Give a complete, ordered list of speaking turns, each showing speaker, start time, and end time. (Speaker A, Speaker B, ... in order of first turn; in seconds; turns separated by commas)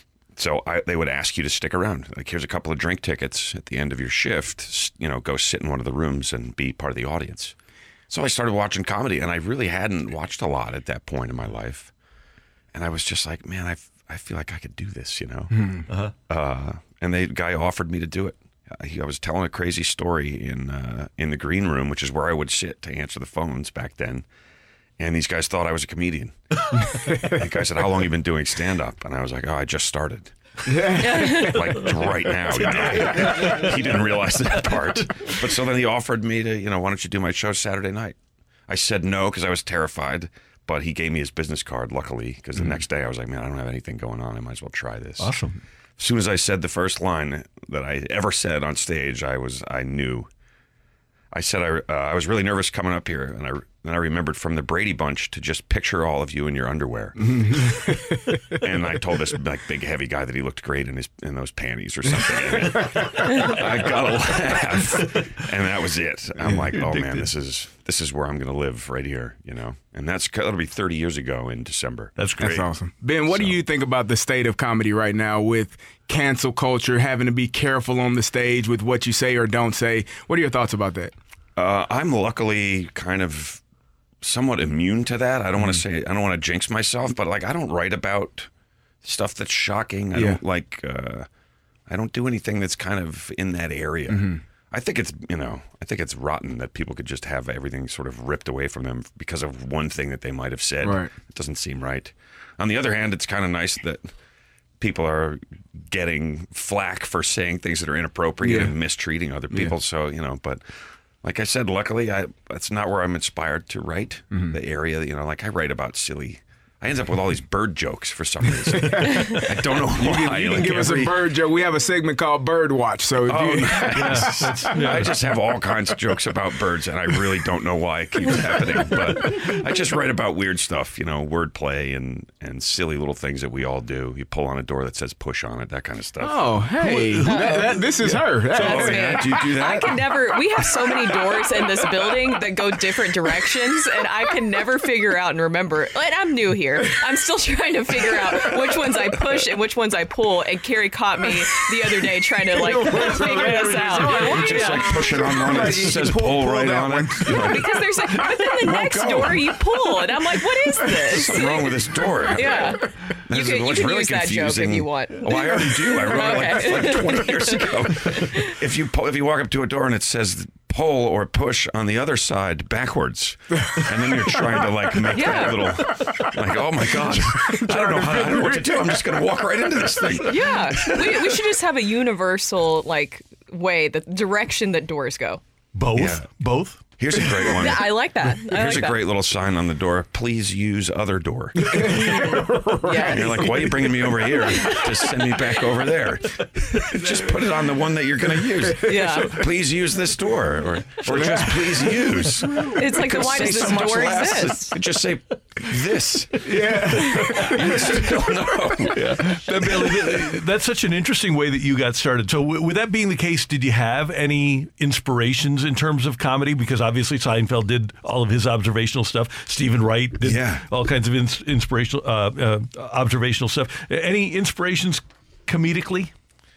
Speaker A: 0.3-7.5, Speaker A: 8.1-11.9, Speaker A: 12.7-24.3, Speaker A: 25.0-26.4, Speaker A: 27.0-38.2, Speaker B: 30.7-31.5, Speaker C: 31.0-31.6, Speaker D: 32.6-34.0, Speaker A: 38.7-45.3, Speaker D: 45.2-45.6, Speaker A: 46.0-50.3, Speaker A: 51.3-72.7, Speaker B: 57.2-58.6, Speaker D: 65.0-65.3, Speaker D: 66.7-67.3, Speaker D: 72.2-72.6, Speaker B: 72.4-81.1, Speaker A: 73.3-73.6, Speaker A: 81.5-83.6, Speaker A: 84.2-88.5, Speaker A: 89.0-91.3, Speaker B: 90.1-90.4, Speaker A: 91.9-104.1, Speaker B: 94.1-94.4, Speaker B: 100.8-101.1, Speaker A: 104.8-110.6, Speaker B: 108.4-108.7, Speaker A: 111.2-121.3, Speaker B: 118.7-124.8, Speaker A: 123.3-136.5, Speaker D: 123.9-125.2, Speaker B: 136.2-139.4, Speaker D: 136.7-138.9, Speaker C: 137.2-137.6, Speaker A: 138.4-141.2, Speaker C: 138.6-155.2, Speaker B: 152.5-157.7, Speaker A: 154.1-157.7, Speaker C: 157.3-161.8, Speaker A: 158.3-159.6, Speaker B: 160.8-161.2, Speaker A: 161.1-181.6, Speaker C: 162.3-168.5, Speaker C: 175.1-175.7, Speaker B: 177.4-179.0, Speaker C: 180.2-185.4, Speaker D: 185.7-186.8, Speaker A: 185.9-186.3, Speaker A: 187.0-192.4, Speaker C: 187.4-189.1, Speaker B: 191.6-194.0, Speaker C: 192.8-194.8, Speaker A: 193.0-210.0, Speaker D: 194.4-195.7, Speaker D: 196.7-197.5, Speaker C: 198.8-199.3, Speaker D: 198.9-199.5, Speaker D: 201.0-204.5, Speaker B: 201.1-201.4, Speaker C: 202.7-204.8, Speaker D: 206.4-207.7, Speaker B: 206.4-208.0, Speaker D: 208.9-226.1, Speaker B: 209.7-210.2, Speaker A: 220.2-220.7